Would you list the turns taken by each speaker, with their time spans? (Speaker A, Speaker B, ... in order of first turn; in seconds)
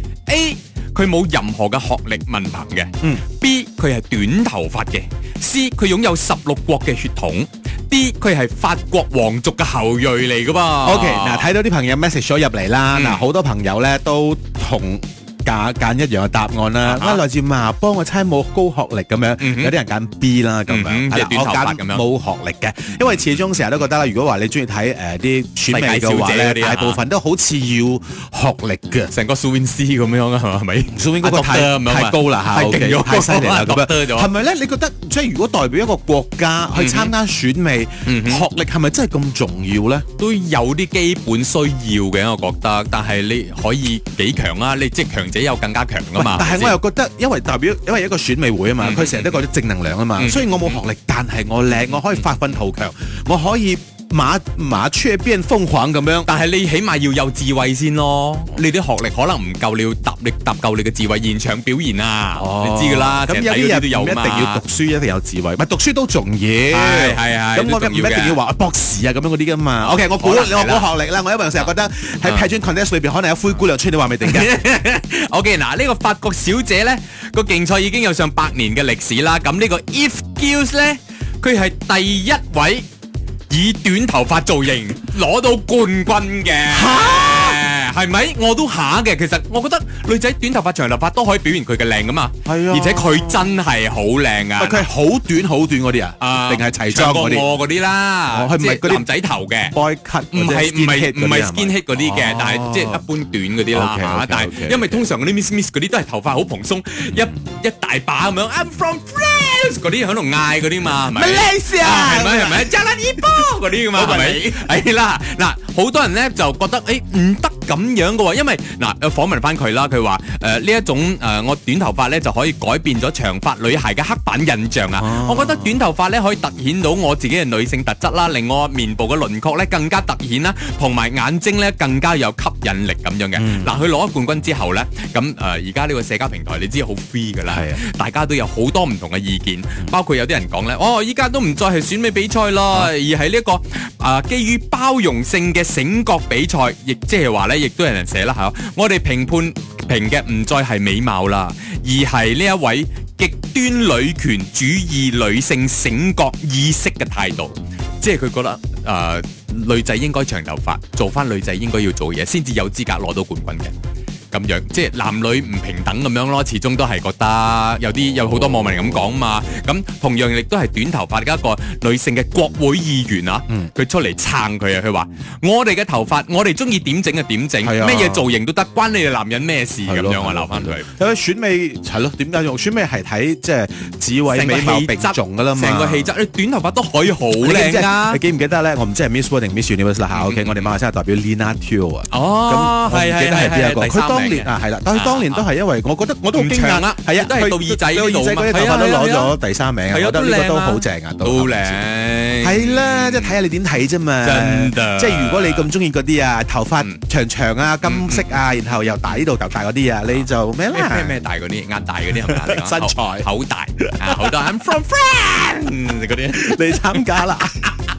Speaker A: 0.3-11.5, 12.9-13.2, 16.8-17.2, 19.4-19.8, 20.7-22.0, 25.7-27.0, 29.1-34.3, 36.7-37.1, 38.0-38.4, 40.2-46.8, 48.8-49.4, 50.2-50.8, 51.9-52.3, 56.2-64.6, 66.7-68.4, 69.8-70.9, 74.2-82.8, 83.5-94.9, 96.2-99.7, 100.3-163.7, 164.3-180.9, 184.3-188.2, 190.1-190.7, 192.1-195.5, 196.3-199.3, 199.9-203.3, 204.2-205.7, 207.8-208.3, 210.1-217.2
Speaker B: 10.8-29.1, 30.9-40.0, 46.1-56.3, 62.3-74.5, 86.7-87.6, 92.4-93.5, 94.6-97.5, 98.3-99.1, 99.7-103.0, 103.7-105.1, 111.0-112.8, 113.3-114.7, 125.0-125.8, 133.3-133.8, 137.4-137.8, 177.6-178.3, 179.8-186.1, 187.4-201.8, 202.4-211.1, 212.2-213.3, 213.8-214.5, 216.3-217.7